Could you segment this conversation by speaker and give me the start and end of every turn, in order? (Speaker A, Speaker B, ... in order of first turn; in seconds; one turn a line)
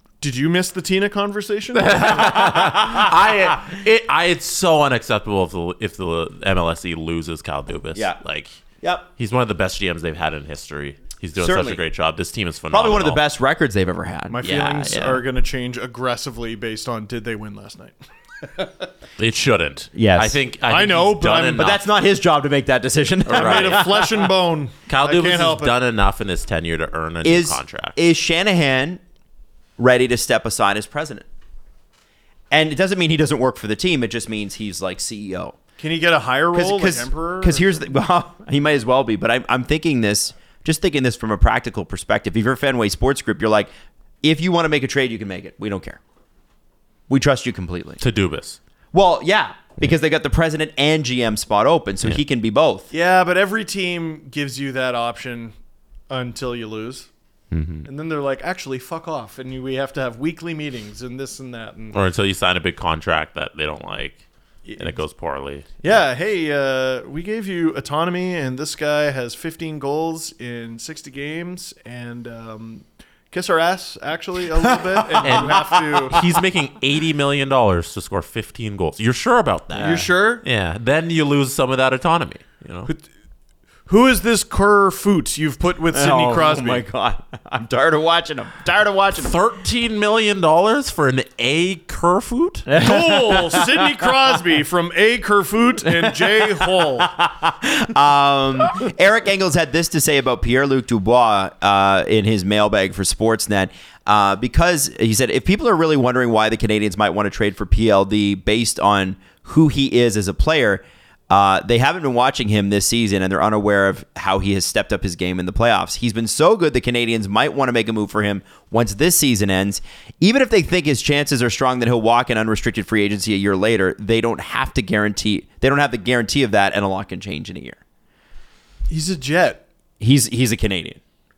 Speaker A: 0.2-2.4
Speaker B: 1.8-8.6
Speaker C: 2.3-3.1
Speaker B: 9.2-13.2
Speaker C: 11.4-11.8
Speaker C: 12.7-14.7
Speaker A: 14.3-18.7
Speaker B: 14.5-15.2
Speaker B: 19.2-21.8
Speaker C: 19.9-20.4
Speaker A: 20.7-21.7
Speaker C: 21.6-24.1
Speaker B: 23.3-24.0
Speaker A: 23.3-25.8
Speaker B: 24.9-28.0
Speaker C: 27.2-29.0
Speaker C: 29.8-31.2
Speaker C: 32.5-35.6
Speaker A: 35.8-37.9
Speaker C: 36.5-43.7
Speaker C: 44.2-46.0
Speaker C: 47.1-48.0
Speaker B: 48.0-48.6
Speaker C: 48.9-52.9
Speaker A: 52.9-55.5
Speaker A: 56.1-57.1
Speaker B: 57.5-57.9
Speaker A: 57.9-62.0
Speaker B: 61.9-64.2
Speaker A: 64.7-65.0
Speaker B: 64.8-65.8
Speaker A: 65.8-76.2
Speaker C: 75.0-76.2
Speaker B: 75.2-82.9
Speaker A: 79.7-80.4
Speaker A: 83.9-86.8
Speaker C: 85.9-89.3
Speaker B: 89.2-92.7
Speaker C: 92.7-93.8
Speaker A: 92.8-97.1
Speaker C: 96.1-127.8
Speaker A: 128.9-129.6
Speaker C: 130.0-131.0